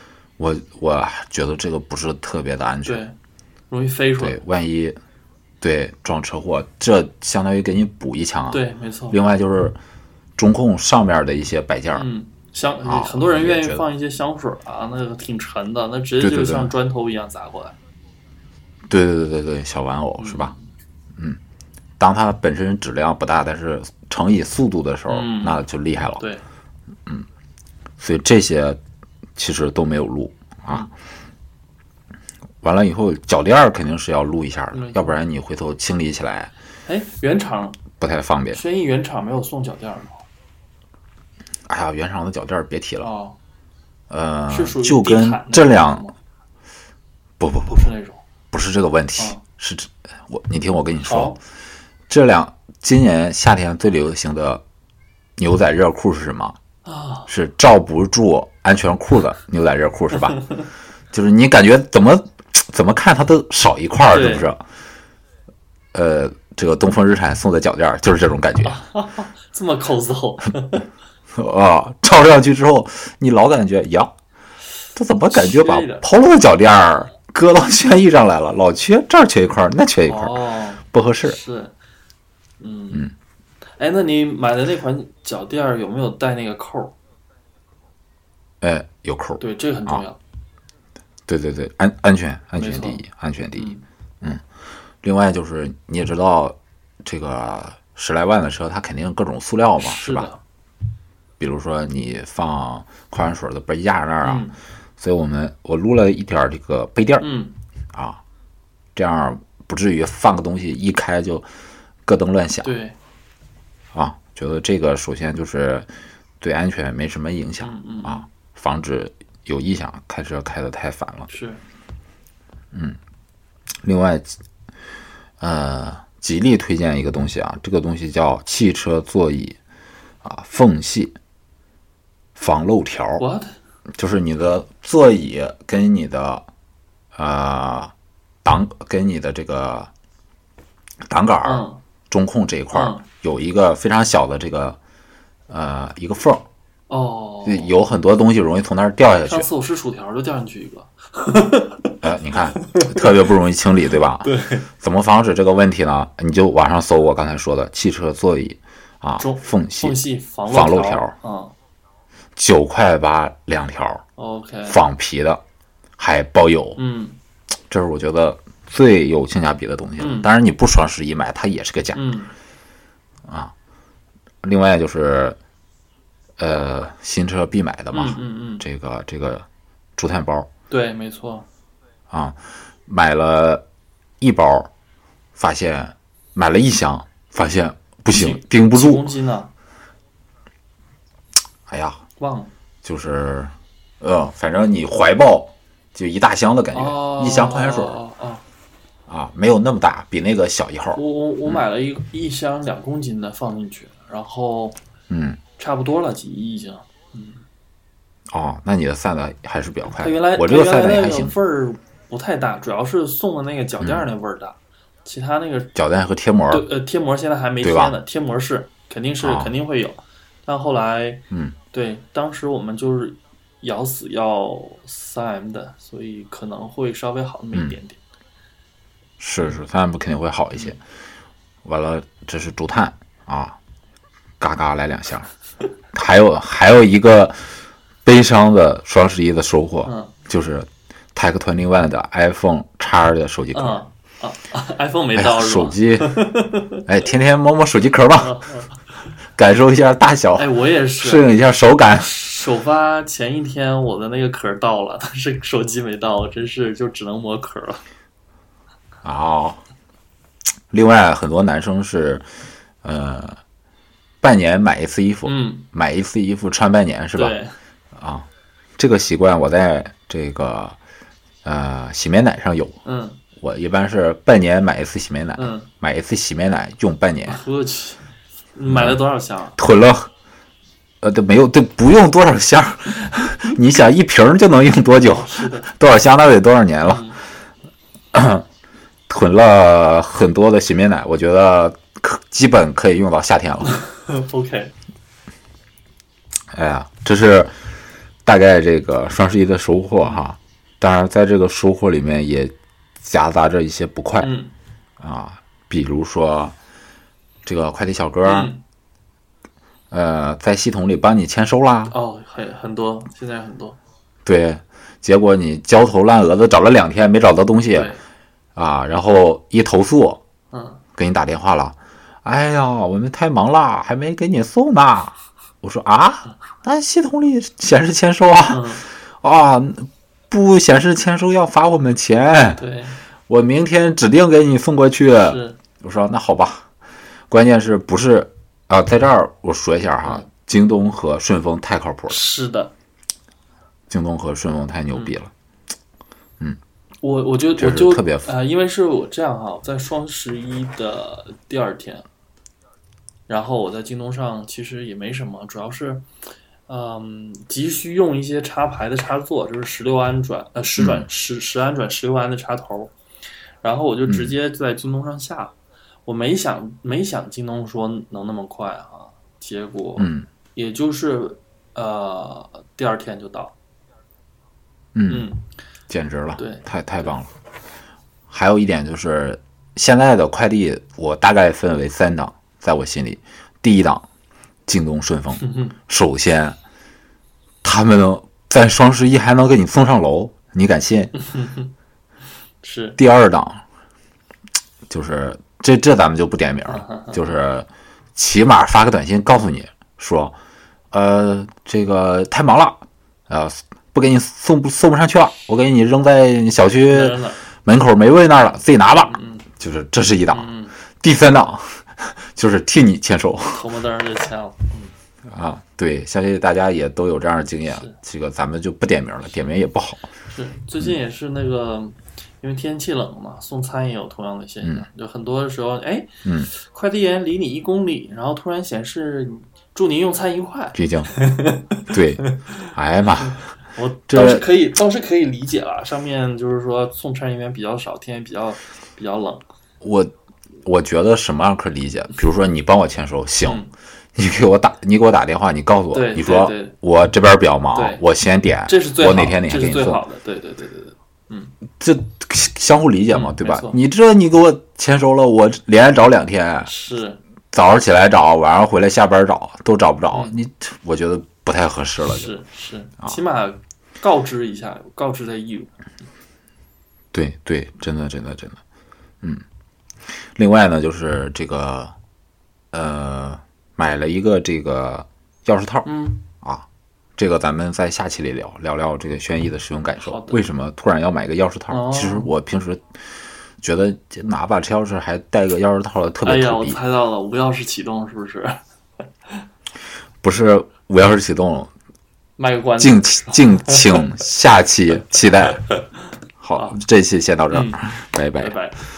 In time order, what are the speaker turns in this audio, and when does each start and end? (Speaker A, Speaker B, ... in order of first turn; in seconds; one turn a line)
Speaker A: 0.4-3.0
Speaker B: 2.8-3.1
Speaker B: 3.7-4.4
Speaker A: 4.2-5.0
Speaker A: 5.6-9.8
Speaker B: 8.5-9.2
Speaker A: 10.4-12.1
Speaker B: 11.9-17.8
Speaker A: 12.8-13.8
Speaker A: 16.2-16.7
Speaker A: 18.9-20.5
Speaker B: 20.2-20.6
Speaker A: 22.0-26.2
Speaker B: 25.1-25.6
Speaker B: 26.2-26.4
Speaker A: 28.0-28.8
Speaker A: 29.4-30.9
Speaker A: 32.6-36.5
Speaker B: 34.7-35.1
Speaker B: 36.9-37.8
Speaker A: 38.0-38.6
Speaker B: 38.5-40.2
Speaker A: 41.7-43.1
Speaker B: 43.0-43.4
Speaker A: 44.1-46.1
Speaker B: 44.5-46.1
Speaker A: 47.4-47.9
Speaker B: 47.7-48.2
Speaker A: 48.5-51.4
Speaker B: 51.0-51.4
Speaker A: 52.1-54.6
Speaker A: 55.4-56.6
Speaker B: 56.8-57.3
Speaker A: 57.3-60.4
Speaker B: 60.4-60.6
Speaker A: 61.1-64.6
Speaker B: 64.1-64.5
Speaker A: 65.9-68.8
Speaker B: 68.6-70.9
Speaker A: 71.3-74.1
Speaker A: 74.9-81.4
Speaker B: 75.3-76.1
Speaker B: 80.0-81.7
Speaker B: 82.6-83.1
Speaker B: 83.8-87.0
Speaker A: 88.6-90.0
Speaker B: 89.4-90.2
Speaker A: 91.3-94.4
Speaker B: 92.6-93.0
Speaker B: 93.5-93.8
Speaker A: 95.0-100.3
Speaker B: 99.8-100.4
Speaker A: 101.4-104.5
Speaker B: 104.2-104.5
Speaker A: 105.0-107.2
Speaker B: 107.2-107.5
Speaker A: 107.9-108.2
Speaker A: 109.0-111.5
Speaker A: 112.0-112.7
Speaker B: 112.6-113.0
Speaker A: 113.9-115.9
Speaker A: 116.4-121.3
Speaker B: 117.6-118.2
Speaker B: 121.3-121.6
Speaker A: 122.7-123.0
Speaker A: 123.8-124.3
Speaker A: 125.4-129.6
Speaker A: 130.2-131.2
Speaker A: 132.3-133.2
Speaker B: 133.2-133.5
Speaker A: 133.9-136.5
Speaker A: 137.1-137.9
Speaker A: 138.4-139.9
Speaker A: 141.1-144.8
Speaker B: 141.4-141.8
Speaker B: 142.7-143.0
Speaker A: 145.5-146.4
Speaker B: 146.9-147.7
Speaker A: 147.4-149.5
Speaker B: 149.3-152.0
Speaker A: 152.0-161.1
Speaker B: 152.6-153.1
Speaker B: 154.2-154.7
Speaker B: 159.2-161.5
Speaker A: 162.3-164.0
Speaker B: 164.2-164.8
Speaker A: 164.7-165.4
Speaker A: 166.0-166.8
Speaker B: 166.8-167.2
Speaker A: 167.7-172.1
Speaker B: 170.0-170.3
Speaker B: 171.9-172.3
Speaker A: 173.2-173.5
Speaker A: 174.4-175.4
Speaker A: 176.4-180.5
Speaker B: 177.9-178.6
Speaker B: 180.7-181.5
Speaker A: 182.1-183.6
Speaker A: 184.2-184.7
Speaker A: 185.3-189.1
Speaker B: 188.1-189.5
Speaker A: 191.7-192.0
Speaker B: 192.2-192.5
Speaker A: 192.8-198.0
Speaker B: 196.7-198.4
Speaker A: 199.1-201.6
Speaker B: 200.9-204.8
Speaker A: 205.1-205.4
Speaker B: 205.6-207.4
Speaker A: 208.3-211.3
Speaker B: 209.9-215.8
Speaker A: 215.7-216.7
Speaker B: 216.5-228.0
Speaker A: 217.6-218.0
Speaker A: 219.2-219.5
Speaker A: 229.2-230.8
Speaker A: 231.6-233.6
Speaker A: 234.4-235.3
Speaker A: 235.9-237.5
Speaker A: 238.0-243.8
Speaker B: 239.8-240.1
Speaker B: 243.5-246.8
Speaker A: 245.1-246.2
Speaker A: 246.8-248.4
Speaker B: 248.2-248.7
Speaker A: 249.3-252.1
Speaker B: 250.4-251.3
Speaker B: 251.9-257.8
Speaker A: 259.0-259.6
Speaker A: 260.7-262.3
Speaker A: 262.8-263.4
Speaker A: 264.2-267.4
Speaker B: 265.2-265.6
Speaker B: 267.1-267.6
Speaker A: 267.9-270.8
Speaker A: 271.4-272.8
Speaker B: 272.8-273.2
Speaker A: 273.4-277.4
Speaker B: 275.4-275.7
Speaker B: 277.3-278.0
Speaker B: 278.5-279.6
Speaker A: 278.7-279.0
Speaker A: 279.6-280.1
Speaker A: 281.0-287.1
Speaker B: 285.0-285.7
Speaker B: 286.8-287.2
Speaker A: 288.1-288.4
Speaker A: 289.1-293.8
Speaker B: 293.6-294.7
Speaker A: 296.5-297.5
Speaker A: 298.2-304.3
Speaker B: 304.2-304.5
Speaker A: 305.0-306.5
Speaker A: 307.4-308.5
Speaker B: 308.2-308.6
Speaker A: 309.9-311.9
Speaker B: 311.9-313.8
Speaker A: 314.2-317.9
Speaker B: 317.7-318.0
Speaker A: 318.6-320.2
Speaker B: 320.5-320.8
Speaker A: 320.9-332.6
Speaker B: 328.5-328.8
Speaker B: 332.6-333.0
Speaker A: 333.3-336.6
Speaker B: 335.2-335.6
Speaker A: 337.3-342.2
Speaker B: 342.1-342.7
Speaker A: 343.9-345.3
Speaker B: 347.0-352.1
Speaker A: 347.6-348.3
Speaker B: 353.3-356.1
Speaker B: 356.7-362.9
Speaker A: 360.8-361.1
Speaker B: 363.6-365.5
Speaker A: 364.1-364.3
Speaker B: 366.1-373.5
Speaker A: 370.0-370.3
Speaker A: 374.9-375.3
Speaker B: 375.1-375.4
Speaker A: 375.9-377.3
Speaker B: 376.4-377.1
Speaker A: 378.3-384.1
Speaker A: 384.7-386.6
Speaker B: 385.4-385.7
Speaker A: 387.6-391.1
Speaker B: 391.2-391.7
Speaker B: 392.6-393.0
Speaker A: 393.0-393.6
Speaker A: 394.9-400.3
Speaker B: 396.7-397.3
Speaker A: 400.9-413.6
Speaker B: 406.9-407.4
Speaker B: 408.9-409.4
Speaker B: 410.3-410.7
Speaker B: 413.5-414.9
Speaker A: 415.3-420.1
Speaker B: 420.3-432.6
Speaker A: 426.2-426.5
Speaker A: 430.7-431.2
Speaker A: 431.9-433.4
Speaker B: 433.7-439.4
Speaker A: 434.1-434.5
Speaker A: 439.8-443.6
Speaker B: 443.4-443.7
Speaker A: 444.1-450.0
Speaker B: 445.9-446.7
Speaker B: 447.7-448.0
Speaker B: 448.7-451.5
Speaker A: 451.8-456.7
Speaker B: 453.1-453.8
Speaker B: 456.6-457.2
Speaker A: 457.5-462.3
Speaker B: 462.0-465.7
Speaker A: 467.1-468.6
Speaker A: 470.3-471.9
Speaker A: 472.7-482.9
Speaker B: 475.8-476.2
Speaker B: 480.0-480.4
Speaker B: 481.7-482.3
Speaker A: 483.6-486.8
Speaker B: 486.2-488.6
Speaker A: 490.2-491.7
Speaker B: 492.4-494.1
Speaker A: 492.8-495.7
Speaker A: 496.4-498.6
Speaker B: 497.5-497.8
Speaker B: 498.4-498.8